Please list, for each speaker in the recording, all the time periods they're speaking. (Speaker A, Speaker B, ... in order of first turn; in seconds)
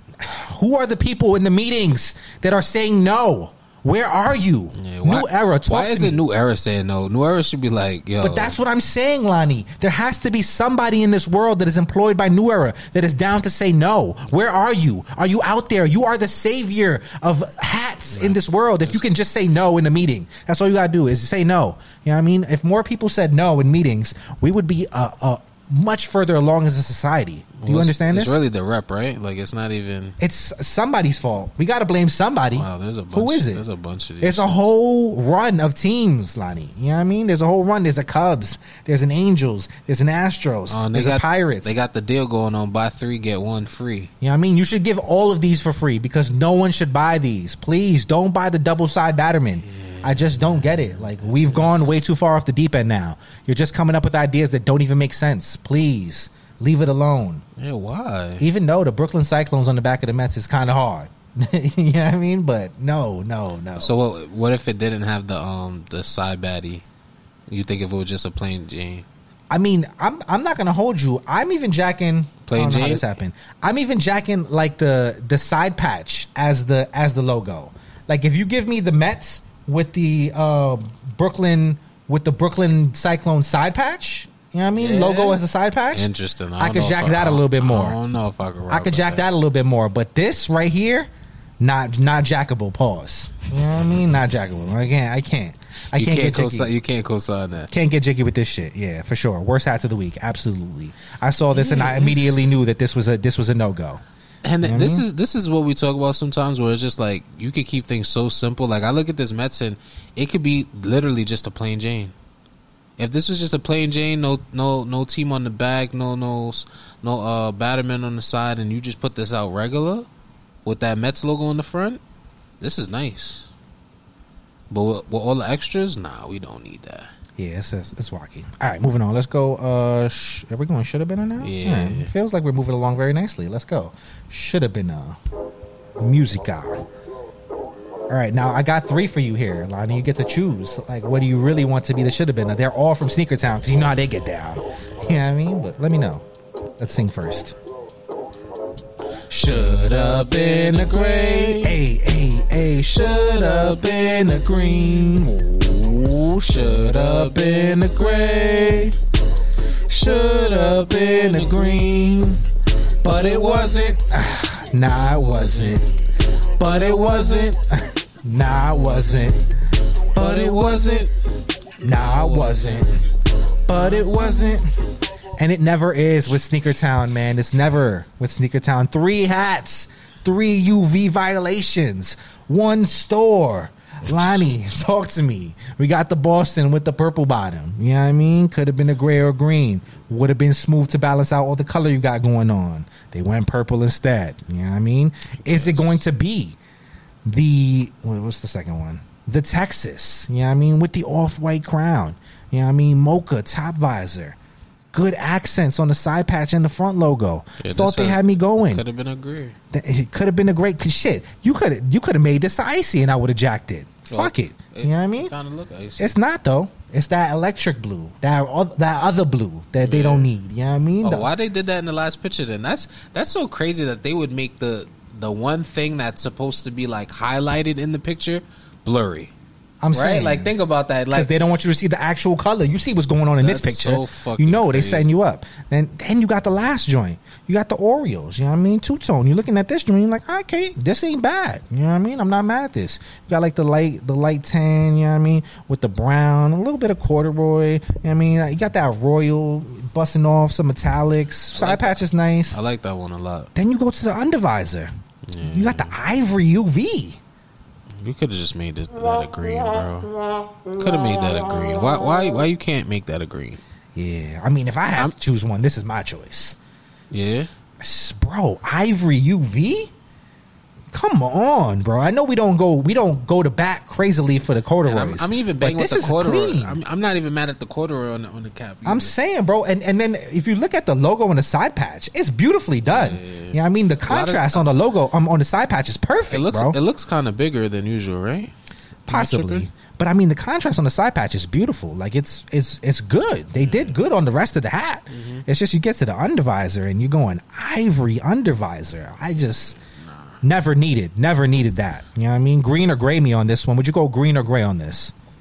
Speaker A: 0.2-6.2, 8.2-28.4, 30.2-33.6, 34.2-41.7, 44.2-57.4, 58.4-63.9, 69.5-88.0, 88.7-91.1, 91.6-96.7, 97.7-104.0, 104.6-105.0, 127.4-135.2, 136.0-136.9, 138.1-146.2, 146.8-147.6, 149.3-159.0, 159.9-162.5, 163.0-165.9, 166.6-169.5, 170.1-171.1, 171.8-173.1, 173.7-174.8, 175.4-196.6, 197.3-204.4, 204.9-208.8, 209.7-215.3, 216.0-221.3, 229.8-230.5, 231.1-252.6, 253.6-254.9, 255.4-257.2, 263.9-266.6, 267.8-269.9, 270.9-276.8, 278.9-286.8, 289.1-299.8, 300.4-305.1
Speaker B: 4.8-8.6, 18.1-19.1, 27.6-30.2, 32.5-34.6, 40.7-44.1, 49.6-52.0, 57.6-58.4, 63.8-66.8, 67.5-69.1, 72.5-73.1, 84.7-85.4, 85.9-89.3, 93.7-94.2, 95.9-97.7, 101.5-102.6, 104.4-112.1, 113.0-120.1, 120.7-122.0, 122.6-123.5, 124.7-127.1, 131.4-132.1, 149.4-151.8, 153.0-155.0, 156.4-157.9, 160.1-161.8, 163.1-164.0, 165.1-165.8, 166.7-167.5, 168.7-169.3, 170.2-171.1, 171.9-173.1, 173.7-174.2, 184.1-184.5, 195.5-196.0, 207.6-209.6, 214.1-216.2, 219.8-220.3, 221.0-229.3, 229.9-231.3, 233.4-235.1, 251.5-253.5, 255.3-255.9, 257.9-260.1, 260.7-263.6, 267.1-267.5, 274.8-279.1, 282.9-284.8, 286.3-288.5, 289.1-289.7, 293.6-294.0, 295.1-295.4, 299.3-300.4